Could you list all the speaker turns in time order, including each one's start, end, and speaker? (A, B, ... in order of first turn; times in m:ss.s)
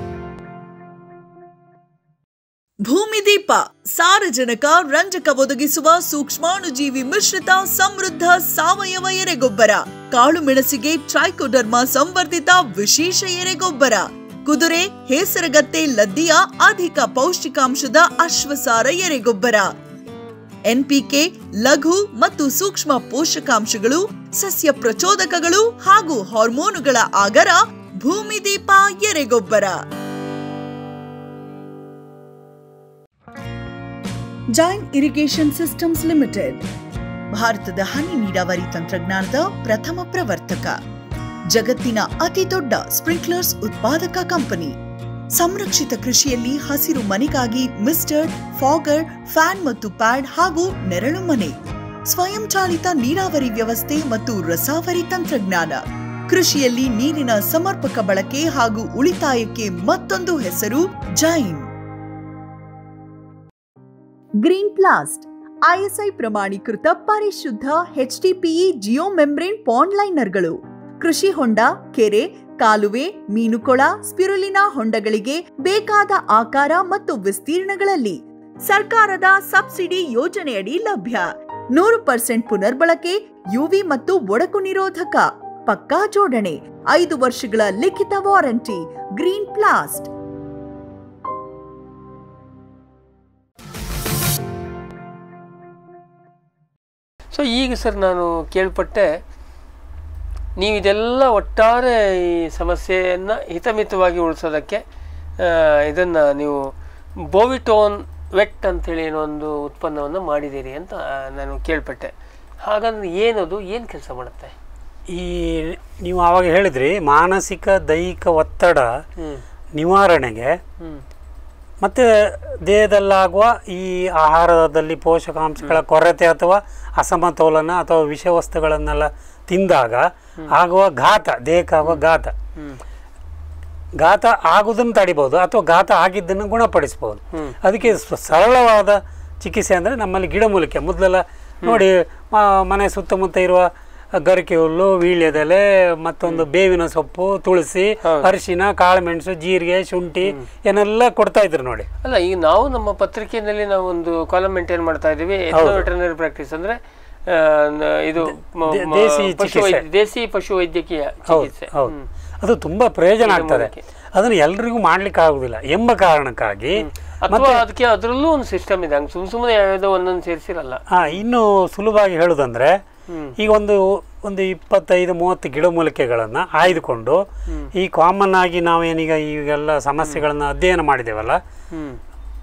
0:02.8-0:19.7 A
0:20.7-0:29.8 A
0:34.5-0:36.6 A
0:37.3-0:40.8 A
0:41.5-0:44.8 A
0:45.3-0:51.6 A
0:52.1-1:01.7 A
1:04.4-1:30.1 A
1:37.3-1:39.1 B
1:40.6-1:44.8 B
1:45.4-1:46.6 B
1:47.3-1:52.1 B
1:52.6-1:54.6 B
1:55.1-1:58.9 C
1:59.2-1:59.4 B
1:59.8-2:00.6 C
2:01.8-2:12.3 C
2:14.0-2:31.9 C
2:17.3-2:18.0 B
2:28.0-2:28.3 B
2:32.0-2:36.8 B
2:35.5-2:35.9 C
2:37.3-2:42.1 B
2:38.2-2:39.8 C
2:41.3-2:47.6 C
2:43.2-2:43.8 B
2:46.8-2:51.2 B
2:50.9-2:52.8 C
2:53.1-2:53.4 B
2:53.4-3:01.4 C
3:01.7-3:02.0 B